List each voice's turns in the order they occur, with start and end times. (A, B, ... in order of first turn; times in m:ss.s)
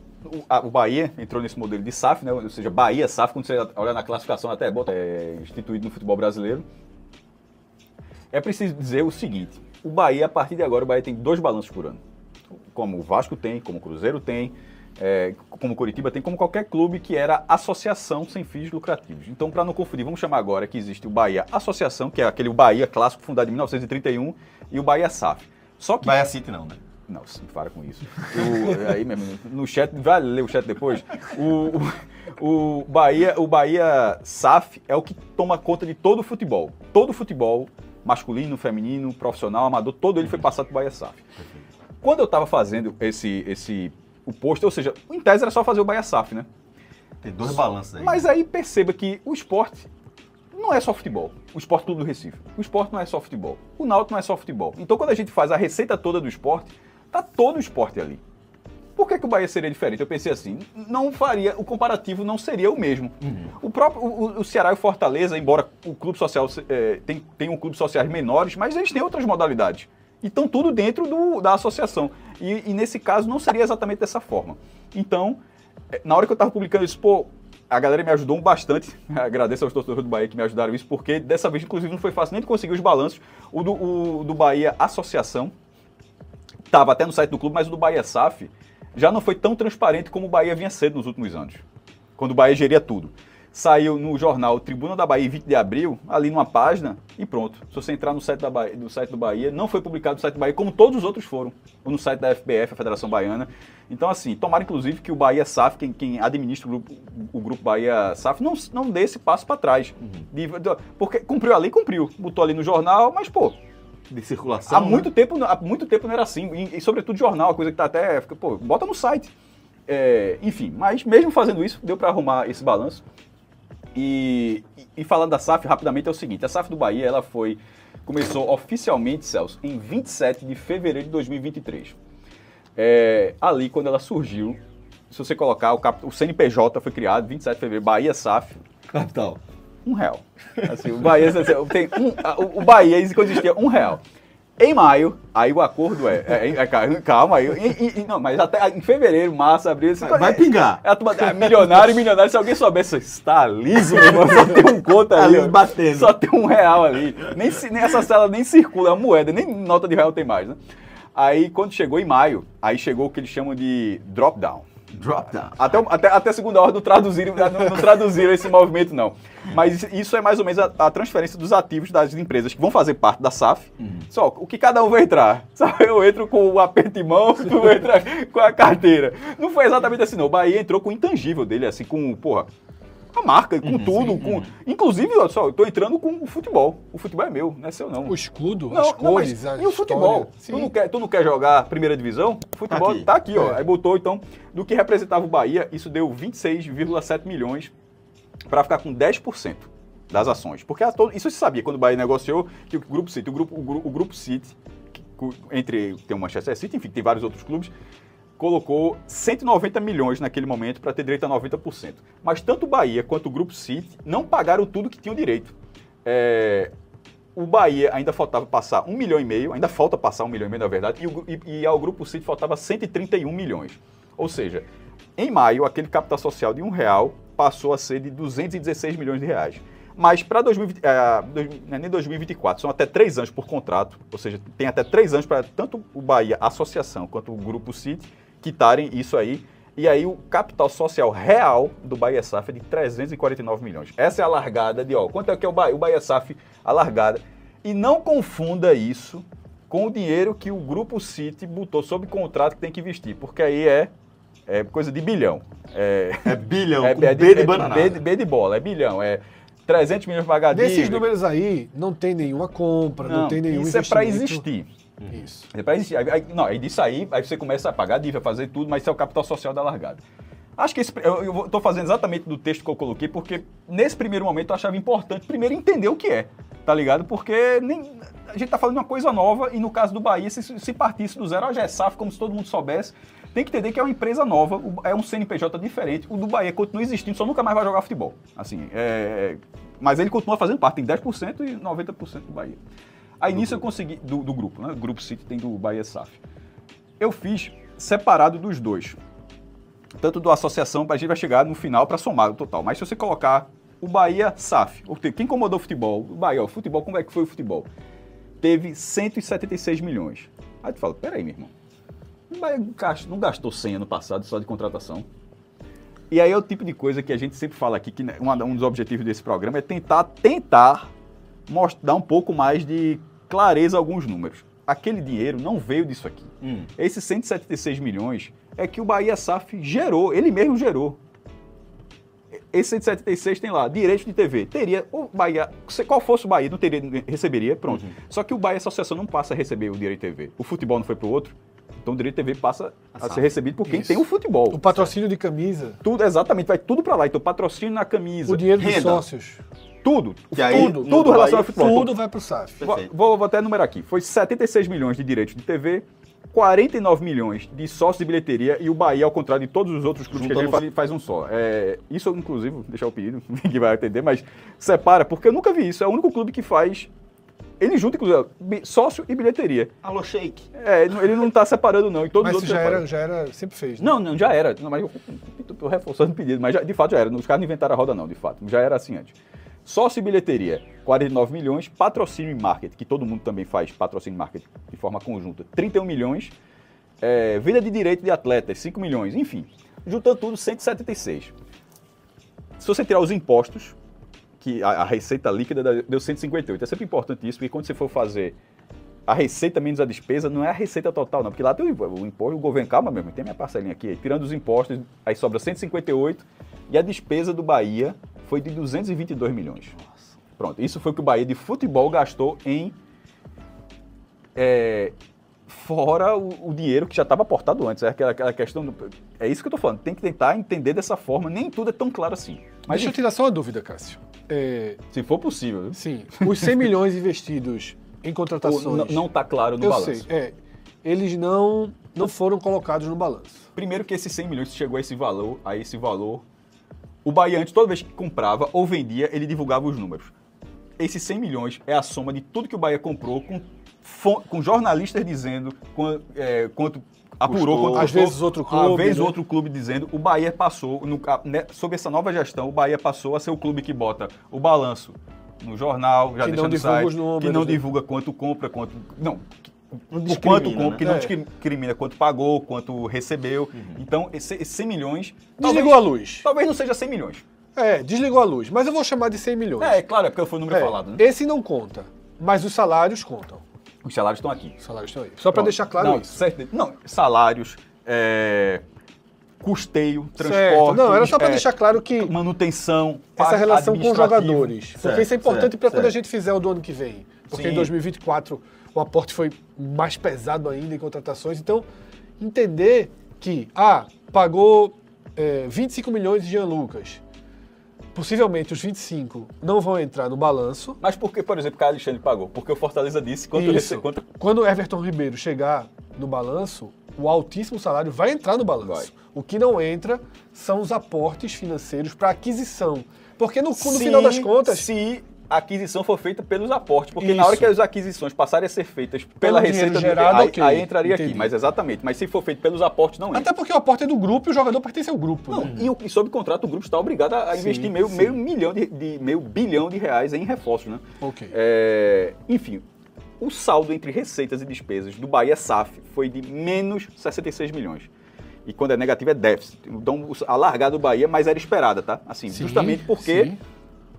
0:00.2-0:06.7 A
0:08.3-0:12.0 A
0:12.7-0:26.2 A
0:26.0-0:26.8 B
0:27.1-0:41.2 A
0:42.0-0:46.5 A
0:47.2-0:48.3 B
0:47.5-0:49.9 A
0:50.5-0:58.2 A
0:59.0-1:15.4 A
1:03.2-1:03.5 B
1:15.9-1:25.5 A
1:26.7-1:31.6 A
1:32.2-1:53.6 A
1:54.1-1:55.1 B
1:54.7-1:59.3 A
1:59.9-2:03.0 A
2:04.0-2:12.0 A
2:12.8-2:14.6 A
2:15.1-2:18.6 A
2:18.9-2:19.4 B
2:19.8-2:24.0 A
2:20.6-2:21.5 B
2:24.6-2:40.6 A
2:30.0-2:31.7 B
2:34.0-2:36.2 B
2:41.2-2:44.7 A
2:44.9-2:45.8 B
2:45.5-3:02.5 A
3:03.1-3:08.2 A
3:03.6-3:04.5 B
3:08.0-3:10.7 C
3:08.7-3:17.7 A
3:12.7-3:13.1 B
3:13.4-3:13.6 C
3:18.5-3:27.7 A
3:28.4-3:36.7 A
3:37.4-3:44.7 A
3:45.2-4:13.9 A
4:14.5-4:21.1 A
4:16.3-4:18.0 B
4:20.5-4:24.5 C
4:23.0-4:24.7 A
4:25.1-4:25.5 C
4:25.5-4:30.0 A
4:30.6-4:52.6 A
4:53.2-4:56.2 A
4:57.0-4:59.0 A
5:00.0-5:07.7 A
5:08.4-5:11.5 A
5:12.3-5:15.1 A
5:16.1-5:20.9 A
5:21.5-5:31.0 A
5:32.5-5:44.8 A
5:37.7-5:38.0 B
5:43.0-5:43.3 B
5:43.7-5:44.0 C
5:44.5-5:45.8 C
5:45.8-5:48.8 A
5:48.3-5:49.4 C
5:48.6-5:49.1 B
5:49.8-5:52.0 A
5:50.3-5:51.9 B
5:50.4-5:51.0 C
5:51.5-5:52.6 C
5:52.6-5:52.9 B
5:52.6-6:06.9 A
6:00.1-6:00.6 B
6:07.6-6:09.8 A
6:09.8-6:10.5 B
6:10.6-6:12.9 A
6:12.2-6:14.0 C
6:13.8-6:26.3 A
6:27.0-6:31.3 A
6:32.6-6:33.8 A
6:34.4-6:38.4 A
6:39.1-6:49.7 A
6:49.8-6:50.1 B
6:50.4-6:52.8 A
6:54.4-6:54.9 A
6:55.5-7:03.0 A
7:02.7-7:04.8 C
7:04.9-7:06.7 A
7:05.7-7:09.1 C
7:08.4-7:10.1 A
7:09.6-7:13.5 C
7:13.6-7:16.2 A
7:17.0-7:20.1 A
7:20.8-7:39.4 A
7:27.3-7:28.0 B
7:27.7-7:29.2 C
7:36.2-7:37.6 C
7:39.9-7:40.9 B
7:39.9-7:47.2 A
7:40.8-7:41.1 C
7:43.6-7:43.8 B
7:45.4-7:46.3 C
7:47.6-7:49.8 C
7:49.6-7:51.0 A
7:50.5-7:53.4 C
7:53.8-7:54.6 A
7:54.6-7:56.2 C
7:55.3-7:58.6 A
7:59.4-8:04.6 A
8:00.2-8:02.2 C
8:03.2-8:11.6 C
8:04.8-8:06.0 B
8:07.3-8:07.7 A
8:12.2-8:17.0 C
8:17.9-8:20.8 C
8:20.8-8:24.0 A
8:23.3-8:34.7 C
8:28.6-8:28.9 A
8:33.6-8:43.3 A
8:37.0-8:37.5 C
8:39.2-8:41.3 C
8:43.1-8:45.5 C
8:45.3-8:52.6 A
8:45.4-8:45.7 B
8:47.3-8:48.2 C
8:51.0-8:51.4 C
8:53.2-8:57.9 A
8:58.5-9:03.3 A
9:02.3-9:03.4 C